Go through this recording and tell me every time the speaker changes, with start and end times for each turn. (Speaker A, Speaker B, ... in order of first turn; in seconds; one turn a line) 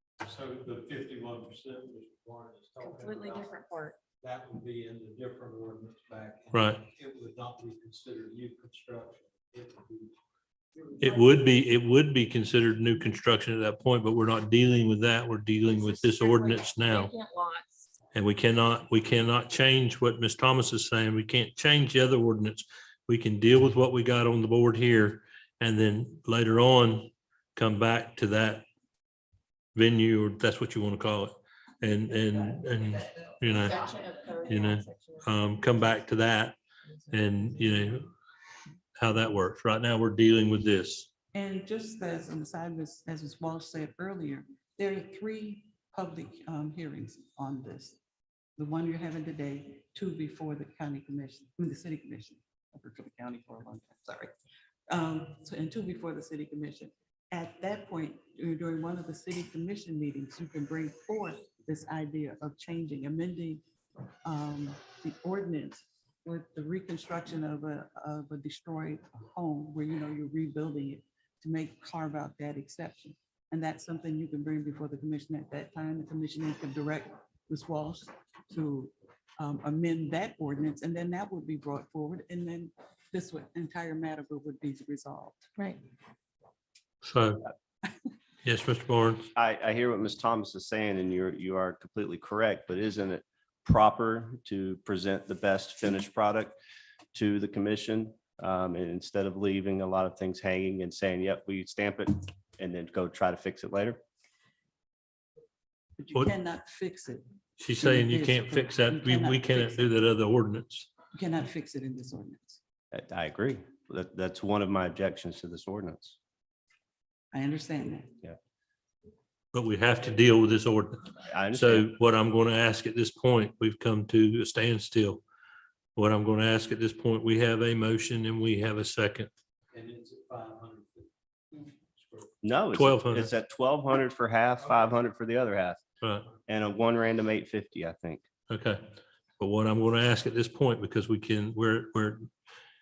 Speaker A: 0.2-10.2
Speaker B: 2.8-4.0
Speaker C: 6.5-6.8
Speaker C: 11.0-17.1
Speaker B: 15.7-17.8
Speaker C: 18.1-28.6
Speaker C: 29.7-33.8
Speaker B: 33.4-35.3
Speaker C: 34.5-36.6
Speaker C: 37.1-38.1
Speaker C: 39.0-41.1
Speaker D: 41.3-48.0
Speaker D: 48.6-54.3
Speaker D: 54.9-63.6
Speaker D: 64.2-85.5
Speaker C: 87.0-87.4
Speaker C: 88.4-89.3
Speaker E: 89.3-96.5
Speaker E: 97.1-104.0
Speaker D: 106.0-109.9
Speaker C: 107.6-110.9
Speaker D: 111.1-112.6
Speaker E: 112.9-116.2
Speaker D: 117.3-118.2
Speaker C: 119.5-125.2
Speaker E: 121.3-121.9
Speaker C: 125.9-129.3
Speaker A: 129.7-132.3
Speaker E: 132.4-135.8
Speaker C: 132.7-133.3
Speaker A: 134.6-135.0
Speaker C: 136.0-136.3
Speaker E: 136.5-138.2
Speaker C: 138.5-138.8
Speaker C: 139.4-142.3